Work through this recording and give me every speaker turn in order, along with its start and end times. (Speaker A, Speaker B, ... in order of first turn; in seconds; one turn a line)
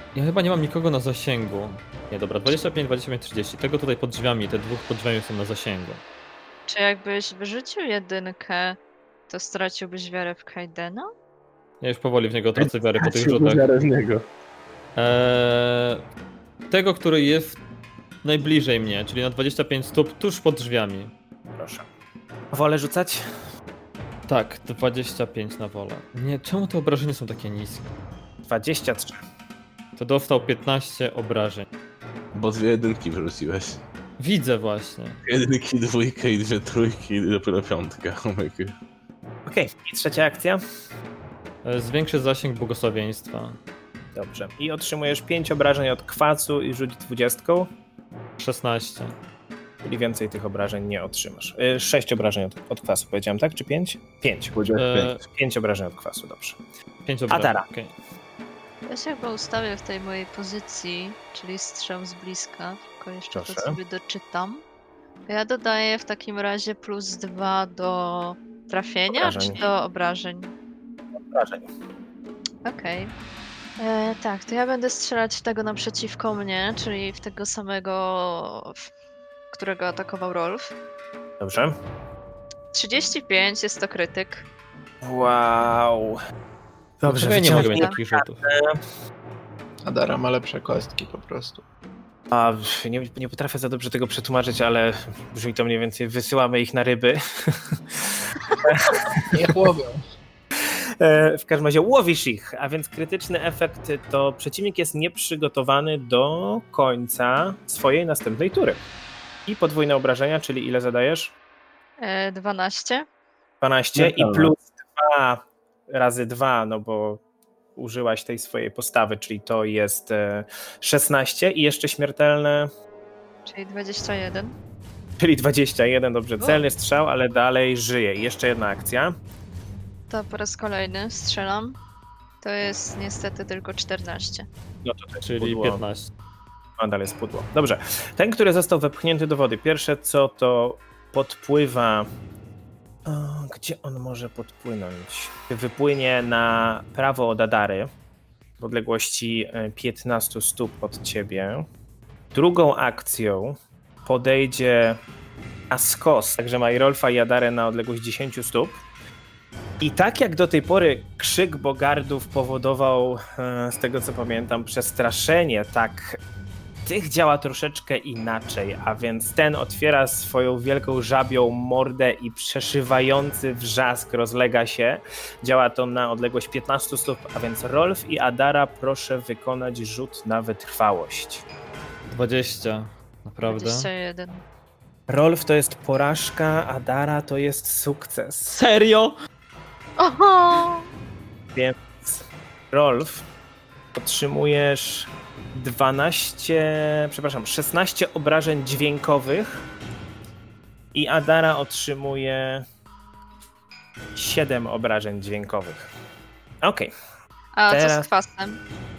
Speaker A: 0.1-6.0
Speaker B: 6.7-8.8
Speaker B: 9.3-11.1
Speaker A: 11.8-13.6
Speaker C: 12.6-14.2
Speaker A: 14.9-16.0
Speaker A: 16.7-17.6
Speaker A: 18.2-21.1
Speaker D: 21.6-21.9
Speaker D: 22.5-23.2
Speaker A: 24.3-27.8
Speaker D: 28.5-29.2
Speaker A: 30.0-31.6
Speaker C: 32.3-33.8
Speaker A: 34.2-35.2
Speaker C: 35.2-38.7
Speaker D: 39.5-40.6
Speaker A: 41.6-43.6
Speaker D: 44.1-47.7
Speaker A: 48.4-49.1
Speaker D: 49.8-54.6
Speaker C: 54.5-55.1
Speaker A: 54.7-55.2
Speaker D: 55.2-56.6
Speaker A: 57.0-57.9
Speaker D: 57.3-57.6
Speaker B: 58.9-64.6
Speaker D: 63.3-63.8
Speaker B: 65.3-70.5
Speaker D: 69.1-69.6
Speaker D: 71.3-71.7
Speaker B: 72.6-73.1
Speaker B: 73.8-78.8
Speaker B: 79.5-80.7
Speaker D: 81.4-81.7
Speaker B: 82.7-84.4
Speaker D: 85.0-86.2
Speaker D: 87.0-88.8
Speaker A: 87.0-88.4
Speaker B: 87.5-88.0
Speaker E: 89.8-91.6
Speaker D: 92.3-97.8
Speaker D: 98.5-99.4
Speaker E: 99.3-100.0
Speaker D: 101.0-108.8
Speaker D: 109.5-111.3
Speaker B: 112.0-113.0
Speaker D: 113.6-117.2
Speaker C: 113.9-114.5
Speaker D: 117.8-122.7
Speaker B: 123.5-124.5
Speaker D: 125.2-129.1
Speaker B: 130.1-131.8
Speaker B: 132.4-134.5
Speaker D: 134.8-135.8
Speaker A: 135.2-136.1
Speaker D: 136.8-142.1
Speaker D: 143.1-147.9
Speaker D: 148.6-151.7
Speaker D: 152.3-155.0
Speaker D: 155.7-158.8
Speaker D: 159.8-166.2
Speaker D: 166.8-181.4
Speaker A: 182.1-183.9
Speaker B: 183.4-184.4
Speaker D: 185.1-188.6
Speaker A: 188.5-189.1
Speaker B: 190.0-190.8
Speaker D: 191.5-193.2
Speaker D: 193.9-199.6
Speaker D: 200.9-202.6
Speaker D: 204.1-205.8
Speaker D: 206.6-206.9
Speaker B: 207.5-208.6
Speaker D: 207.7-208.1